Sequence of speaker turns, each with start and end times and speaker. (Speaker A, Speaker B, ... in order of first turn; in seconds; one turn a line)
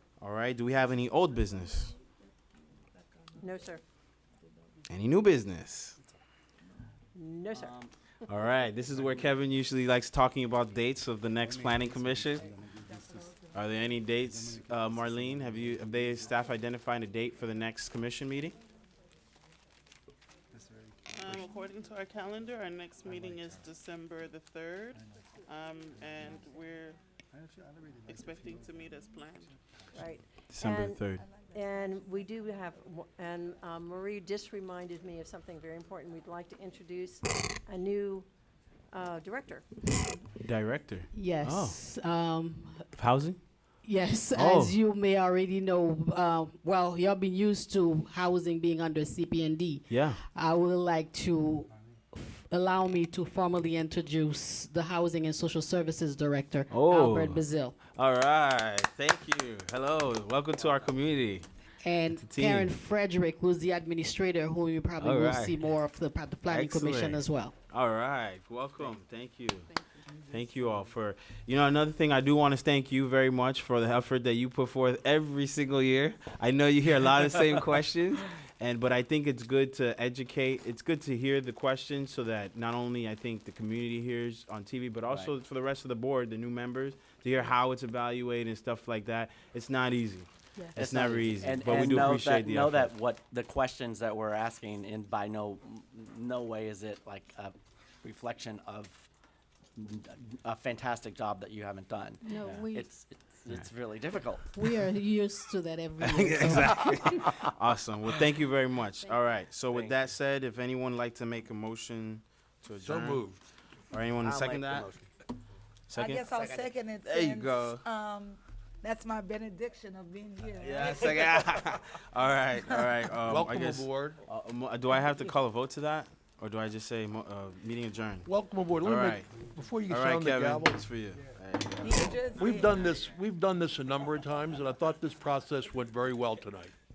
Speaker A: 0.2-1.9
Speaker B: 3.4-3.8
Speaker A: 4.9-6.0
Speaker B: 7.1-7.8
Speaker A: 8.3-12.5
Speaker A: 13.5-18.6
Speaker C: 21.1-27.0
Speaker C: 28.1-29.6
Speaker B: 29.9-38.3
Speaker A: 30.5-31.2
Speaker B: 38.9-39.9
Speaker A: 40.4-41.8
Speaker D: 41.1-42.9
Speaker A: 43.0-43.6
Speaker D: 43.8-57.8
Speaker A: 44.3-44.8
Speaker A: 49.9-50.2
Speaker A: 56.7-61.5
Speaker D: 61.8-67.5
Speaker A: 62.1-62.7
Speaker A: 65.0-65.7
Speaker A: 66.5-69.7
Speaker A: 70.2-92.9
Speaker E: 90.7-99.0
Speaker E: 99.8-104.5
Speaker D: 102.2-102.9
Speaker D: 104.5-107.2
Speaker A: 106.0-113.2
Speaker E: 109.7-110.0
Speaker F: 112.8-113.4
Speaker A: 113.9-114.9
Speaker E: 114.2-115.0
Speaker A: 115.9-116.3
Speaker G: 115.9-121.4
Speaker E: 116.3-116.7
Speaker A: 117.0-117.8
Speaker A: 120.6-128.3
Speaker F: 123.2-124.2
Speaker F: 128.3-130.8
Speaker A: 128.8-129.3
Speaker A: 129.9-132.7
Speaker G: 131.8-132.8
Speaker F: 132.4-136.7